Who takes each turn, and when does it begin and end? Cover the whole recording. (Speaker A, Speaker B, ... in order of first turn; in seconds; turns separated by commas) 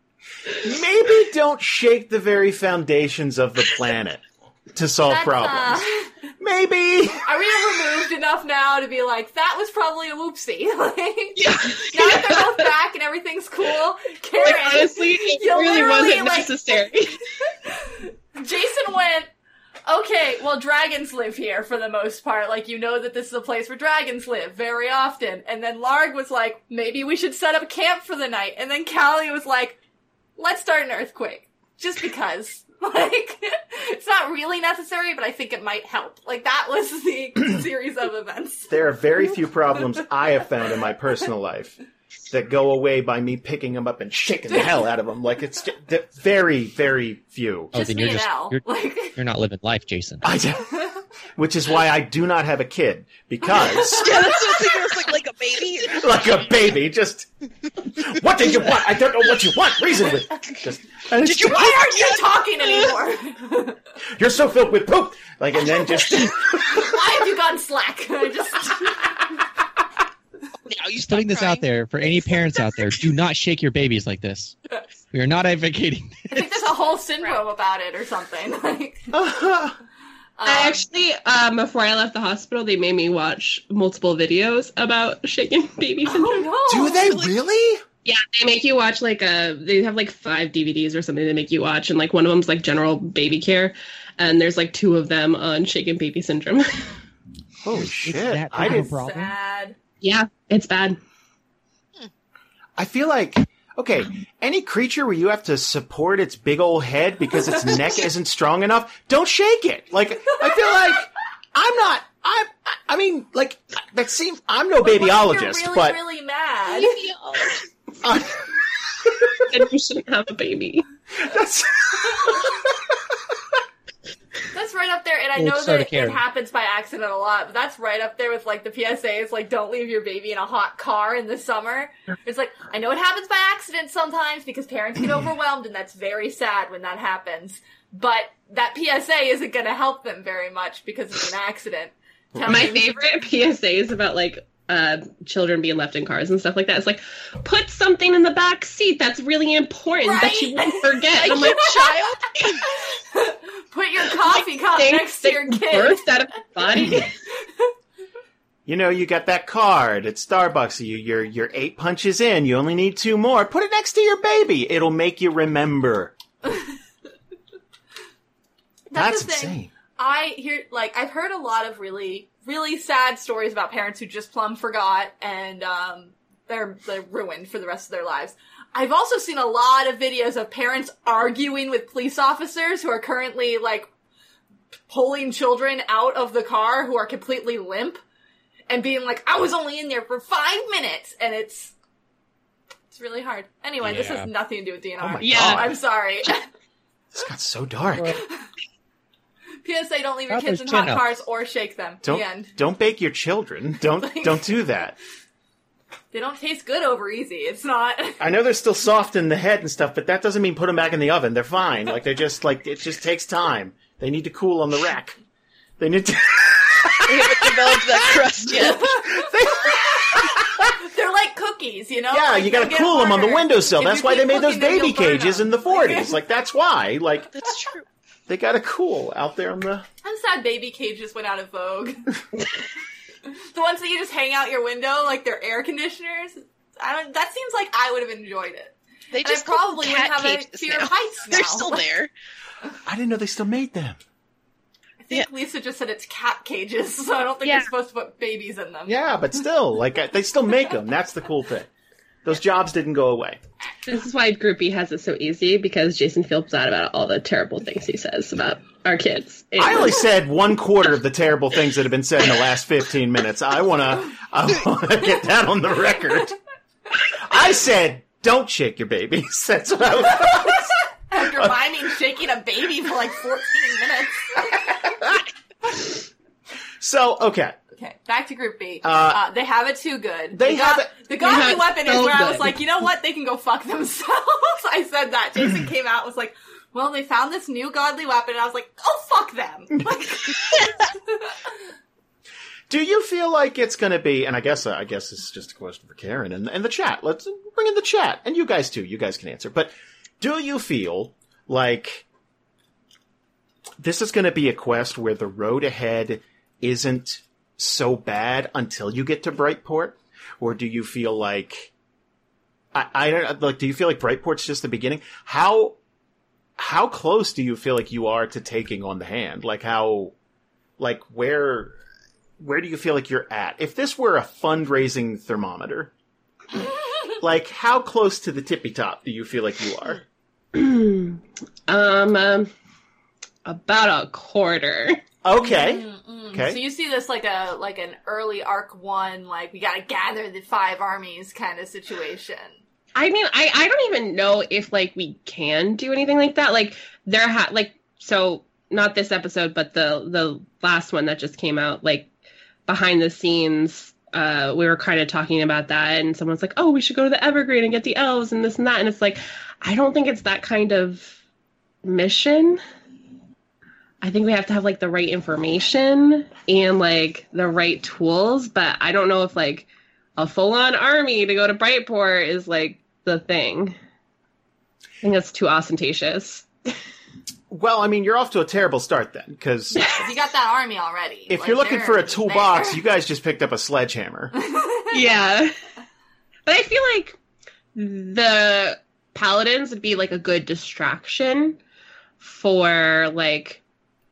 Speaker A: 0.5-5.8, Speaker B: 5.1-6.1, Speaker A: 6.4-7.2, Speaker B: 7.2-16.9, Speaker C: 11.4-12.6, Speaker C: 14.4-17.2, Speaker B: 17.5-19.3, Speaker B: 19.9-29.8, Speaker B: 30.4-38.8, Speaker A: 38.7-41.8, Speaker A: 42.3-47.7, Speaker D: 47.7-48.6, Speaker B: 47.7-49.2, Speaker D: 49.2-50.2, Speaker A: 50.2-50.7, Speaker B: 50.7-51.0, Speaker A: 51.4-54.3, Speaker B: 53.6-54.4, Speaker E: 53.7-56.2, Speaker A: 55.8-57.3, Speaker A: 57.8-61.7, Speaker E: 61.2-62.9, Speaker B: 61.4-63.8, Speaker A: 64.2-67.0, Speaker B: 66.6-69.2, Speaker D: 70.7-74.5, Speaker E: 70.9-71.7, Speaker D: 75.1-76.7, Speaker B: 76.3-79.1, Speaker A: 79.1-79.8, Speaker B: 80.4-80.8, Speaker C: 80.5-86.5, Speaker B: 86.0-87.2, Speaker A: 86.7-87.8, Speaker E: 87.0-87.3, Speaker C: 88.0-96.9, Speaker A: 97.6-98.9, Speaker D: 97.7-99.3, Speaker B: 98.5-99.8, Speaker C: 100.0-101.0, Speaker A: 102.8-116.0, Speaker B: 114.8-117.0, Speaker E: 116.7-117.6, Speaker A: 118.0-118.5, Speaker A: 119.0-119.4, Speaker C: 119.5-120.9, Speaker A: 121.2-123.2, Speaker B: 124.5-142.9, Speaker D: 125.3-126.2, Speaker C: 142.4-151.7, Speaker B: 150.0-152.0, Speaker E: 151.2-152.7, Speaker B: 153.0-156.0, Speaker C: 154.3-157.1, Speaker A: 158.7-166.1, Speaker B: 168.9-183.9, Speaker A: 168.9-169.7, Speaker B: 184.9-188.0, Speaker B: 188.7-191.7, Speaker B: 192.9-196.5, Speaker D: 193.8-194.3, Speaker A: 195.0-195.8, Speaker C: 195.2-195.6, Speaker A: 197.1-198.2, Speaker D: 198.0-198.2, Speaker B: 198.1-198.4, Speaker B: 199.6-202.5, Speaker D: 200.3-201.1, Speaker A: 202.0-205.0, Speaker B: 204.0-204.5, Speaker B: 206.1-208.2, Speaker A: 208.2-215.2, Speaker A: 215.8-220.8, Speaker E: 217.1-219.0, Speaker B: 218.6-226.2, Speaker A: 222.1-227.3, Speaker E: 227.3-227.8, Speaker A: 228.3-229.9, Speaker B: 230.0-232.2, Speaker B: 233.2-241.8, Speaker E: 239.1-242.1, Speaker A: 242.9-244.0, Speaker B: 245.0-249.0, Speaker E: 247.4-247.7, Speaker A: 248.9-251.7, Speaker A: 252.2-253.4, Speaker C: 253.9-260.0, Speaker A: 259.6-266.4, Speaker A: 267.0-271.7, Speaker B: 270.5-274.8, Speaker A: 274.5-275.8, Speaker A: 276.8-277.6, Speaker B: 277.8-291.4, Speaker A: 278.8-279.2, Speaker A: 280.3-280.9, Speaker C: 281.2-282.6, Speaker A: 292.7-302.1, Speaker A: 303.8-311.7, Speaker A: 312.7-315.8, Speaker A: 316.6-320.1, Speaker A: 320.8-321.8, Speaker A: 322.4-325.9, Speaker A: 327.2-330.0, Speaker C: 330.5-332.5, Speaker C: 333.4-335.0, Speaker A: 335.2-336.6, Speaker B: 335.4-342.6, Speaker C: 342.9-352.1, Speaker C: 352.7-361.2, Speaker C: 361.8-362.6, Speaker C: 364.0-373.8, Speaker C: 375.0-376.5, Speaker A: 377.5-380.0, Speaker C: 379.7-380.0, Speaker B: 379.9-382.8, Speaker A: 381.3-384.3, Speaker B: 384.4-385.0, Speaker C: 384.9-385.6, Speaker C: 386.5-387.2, Speaker C: 387.8-391.6, Speaker C: 392.2-393.6